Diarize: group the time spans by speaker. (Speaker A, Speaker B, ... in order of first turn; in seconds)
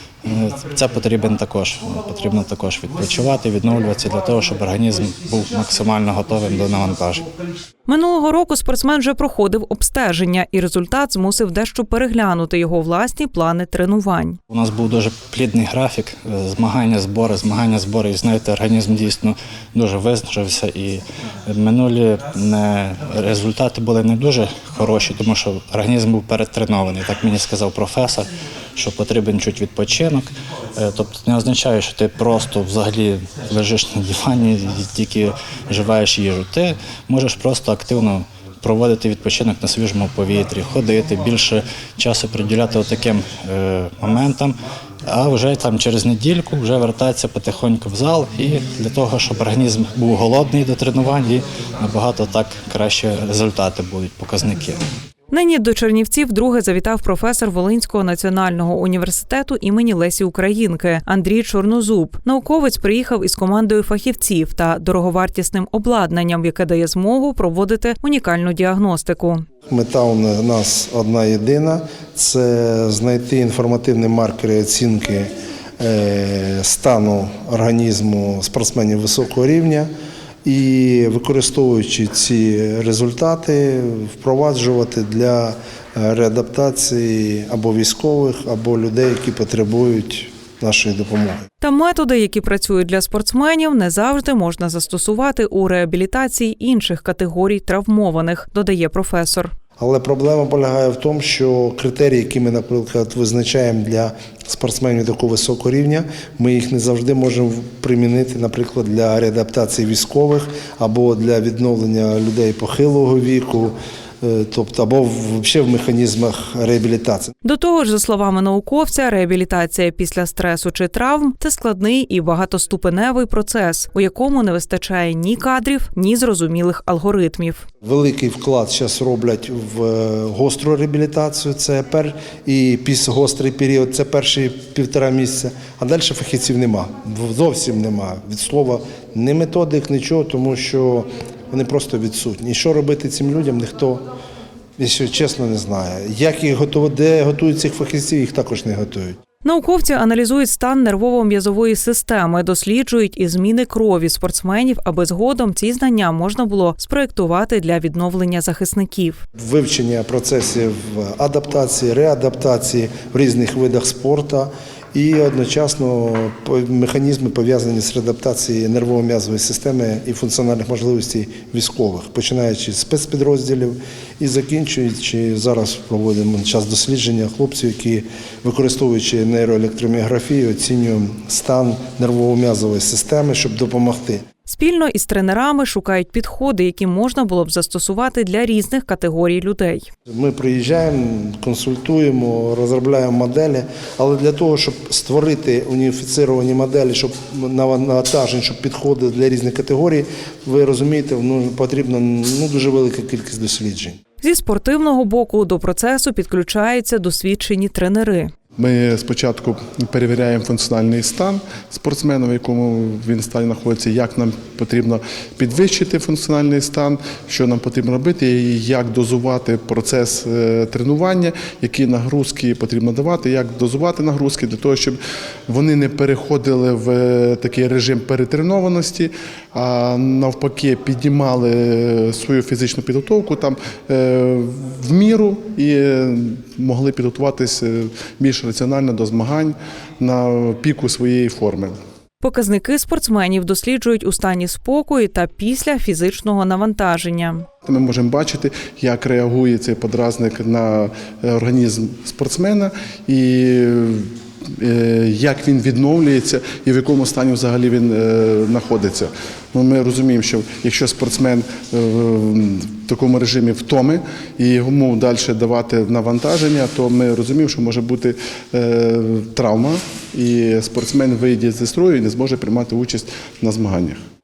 Speaker A: 0.2-7.3, 14.5-54.9
Speaker B: 7.9-14.4, 55.3-69.4, 91.6-99.5, 117.4-127.7, 149.4-159.2, 184.5-189.9, 204.2-208.3, 242.2-247.4
Speaker C: 69.7-79.9, 80.4-91.5, 99.8-117.3, 127.8-144.0, 144.8-149.2, 159.4-184.2, 190.1-204.0
Speaker D: 208.6-241.7, 247.7-274.0